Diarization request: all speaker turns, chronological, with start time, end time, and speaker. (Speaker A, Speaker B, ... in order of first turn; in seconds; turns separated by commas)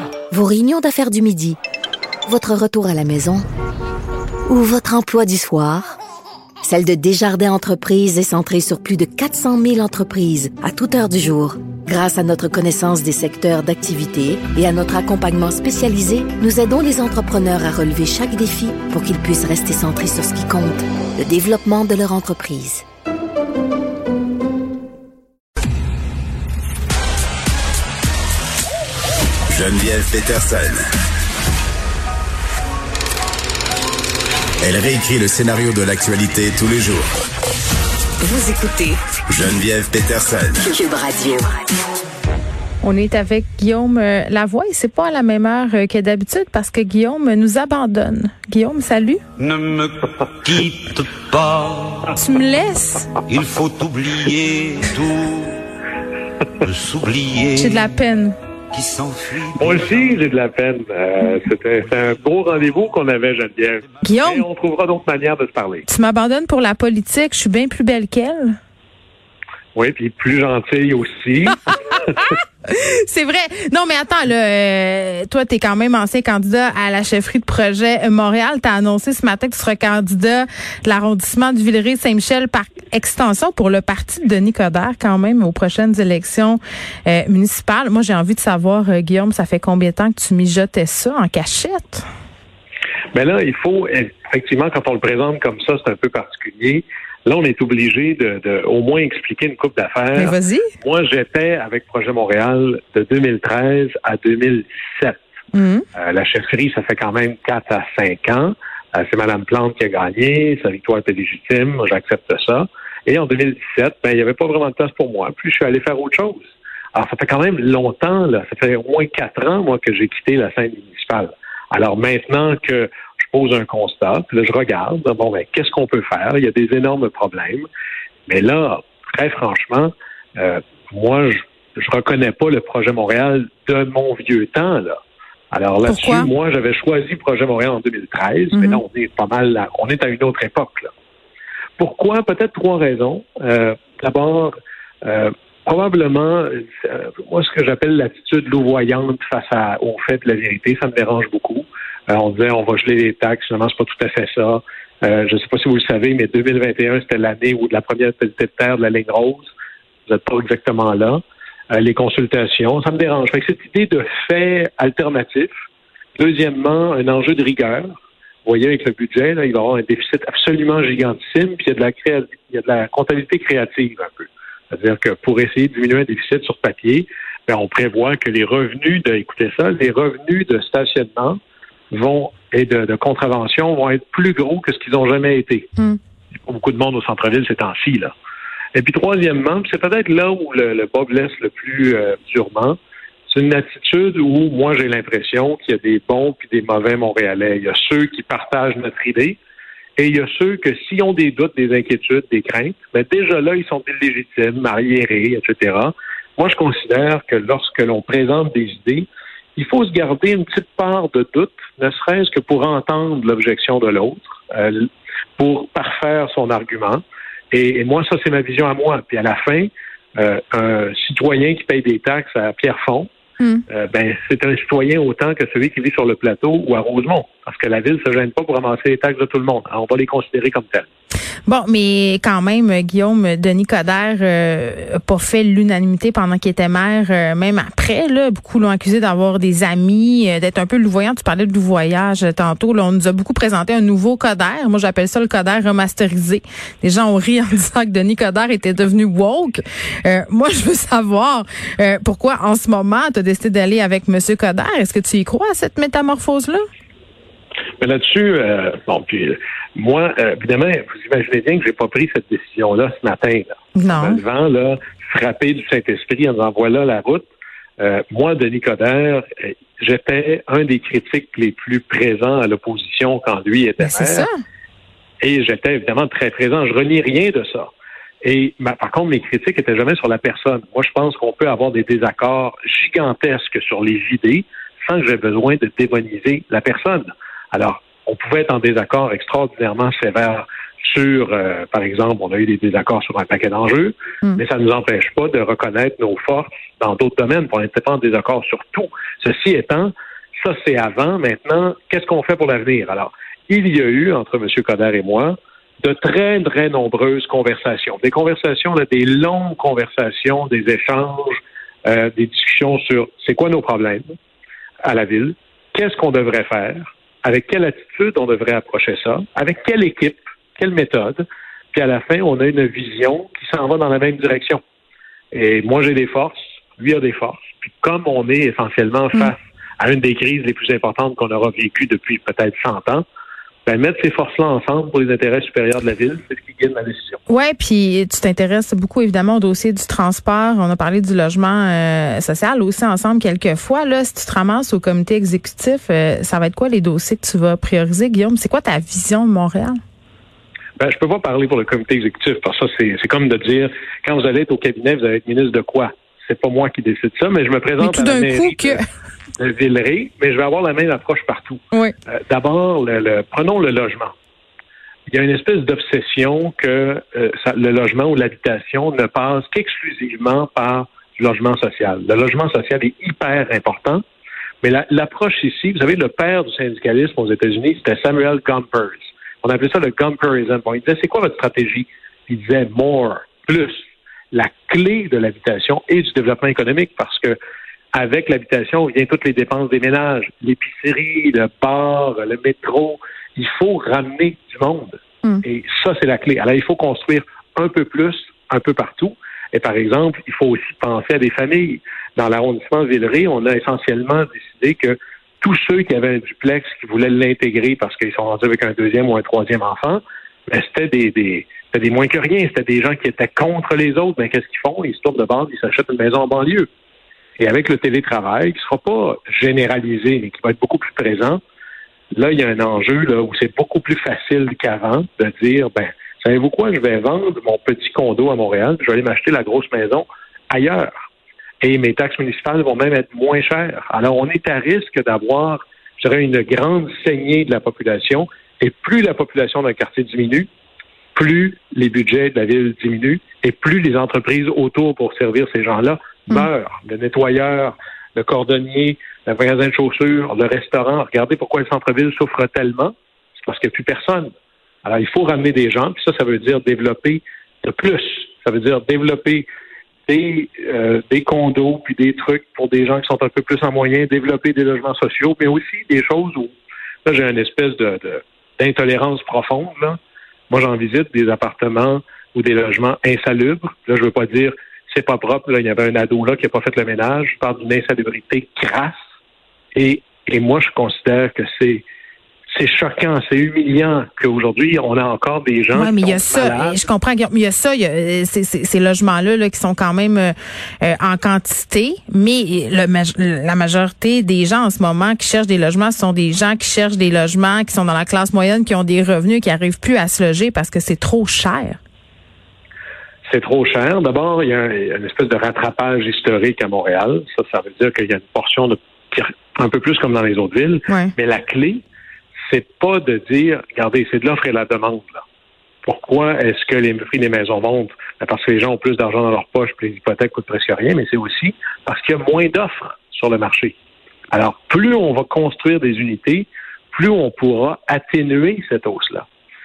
Speaker A: 0.3-1.6, Speaker A: 2.3-3.5, Speaker A: 4.5-6.0, Speaker A: 6.6-22.8, Speaker B: 29.5-30.8, Speaker B: 34.6-37.1, Speaker B: 39.3-40.7, Speaker A: 40.6-41.5, Speaker C: 42.8-49.2, Speaker D: 49.4-52.2, Speaker C: 52.2-53.1, Speaker D: 53.3-55.6, Speaker D: 56.6-57.9, Speaker C: 57.6-58.4, Speaker D: 58.7-60.2, Speaker E: 59.6-65.8, Speaker C: 64.0-64.5, Speaker C: 65.9-68.6, Speaker E: 69.8-71.6, Speaker C: 71.7-92.1, Speaker E: 93.1-105.2, Speaker C: 100.2-100.7, Speaker C: 105.5-105.8, Speaker E: 106.0-127.7, Speaker E: 128.3-135.0, Speaker E: 135.5-140.9, Speaker C: 135.8-136.3, Speaker C: 138.5-138.8, Speaker E: 141.8-144.5, Speaker E: 145.1-159.5, Speaker E: 160.1-161.2, Speaker E: 161.7-165.5, Speaker E: 166.2-167.9, Speaker E: 168.4-181.4, Speaker E: 181.9-185.7, Speaker E: 186.5-188.1, Speaker E: 188.8-192.8, Speaker E: 193.3-199.4, Speaker E: 200.0-223.1, Speaker E: 223.7-230.9, Speaker C: 231.5-256.6, Speaker E: 257.8-274.3, Speaker C: 263.8-264.2, Speaker C: 273.8-274.3, Speaker E: 275.2-277.7, Speaker E: 278.2-314.1, Speaker E: 314.9-324.6, Speaker E: 325.3-333.0, Speaker E: 333.7-337.2, Speaker C: 337.3-349.8, Speaker E: 350.8-358.8, Speaker C: 357.8-358.8, Speaker E: 359.4-364.1, Speaker E: 365.1-374.0, Speaker E: 374.6-383.8, Speaker E: 384.3-387.4, Speaker E: 387.9-416.7, Speaker E: 417.4-421.4, Speaker E: 422.1-430.9, Speaker E: 431.6-440.5, Speaker E: 441.1-454.3, Speaker E: 454.8-459.5, Speaker E: 460.1-466.5, Speaker E: 467.1-470.0, Speaker E: 470.5-479.0, Speaker E: 479.8-481.9, Speaker E: 482.5-486.8, Speaker C: 485.7-501.8, Speaker E: 503.3-511.8, Speaker E: 512.5-515.2, Speaker E: 515.9-523.8, Speaker E: 524.3-529.3